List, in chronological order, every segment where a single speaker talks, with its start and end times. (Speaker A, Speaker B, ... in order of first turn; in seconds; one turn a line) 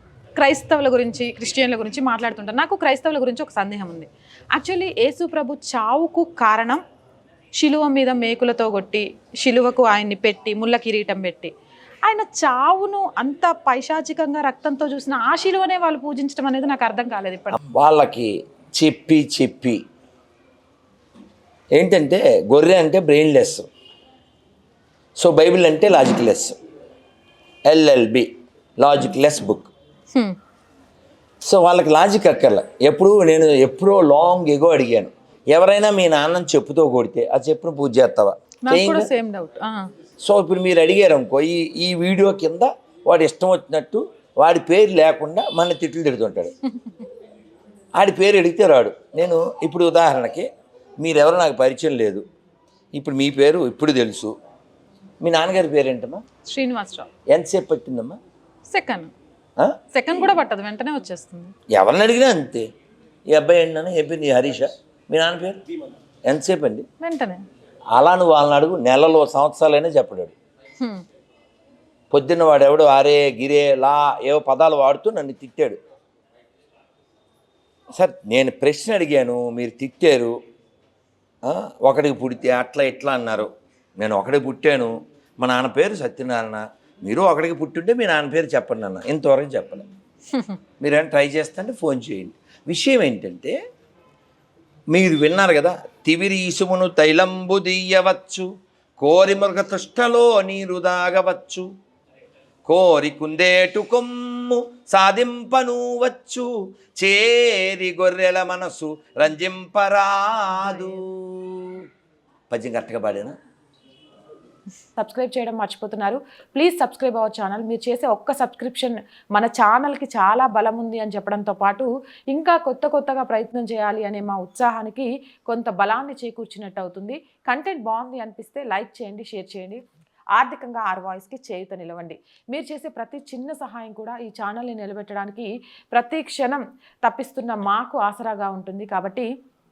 Speaker A: 0.4-6.8
Speaker A: 7.6-11.5
Speaker A: 12.1-17.6
Speaker B: 17.5-19.8
Speaker B: 21.8-23.7
Speaker B: 25.2-26.6
Speaker B: 27.7-29.7
Speaker B: 31.4-39.1
Speaker A: 38.6-39.9
Speaker B: 40.2-46.5
Speaker B: 48.0-50.5
Speaker B: 51.0-52.2
Speaker B: 53.0-54.3
Speaker B: 55.2-56.2
Speaker A: 56.5-57.1
Speaker B: 57.3-58.2
Speaker A: 58.7-59.1
Speaker A: 59.9-61.5
Speaker B: 61.7-62.7
Speaker B: 63.3-65.6
Speaker B: 66.3-66.9
Speaker A: 67.0-67.4
Speaker B: 67.9-70.3
Speaker B: 72.1-75.8
Speaker B: 78.0-80.3
Speaker B: 81.5-89.9
Speaker B: 90.8-93.6
Speaker B: 94.9-98.5
Speaker B: 99.0-101.7
Speaker B: 102.7-111.8
Speaker B: 112.5-113.3
Speaker C: 115.0-129.8
Speaker C: 130.4-139.3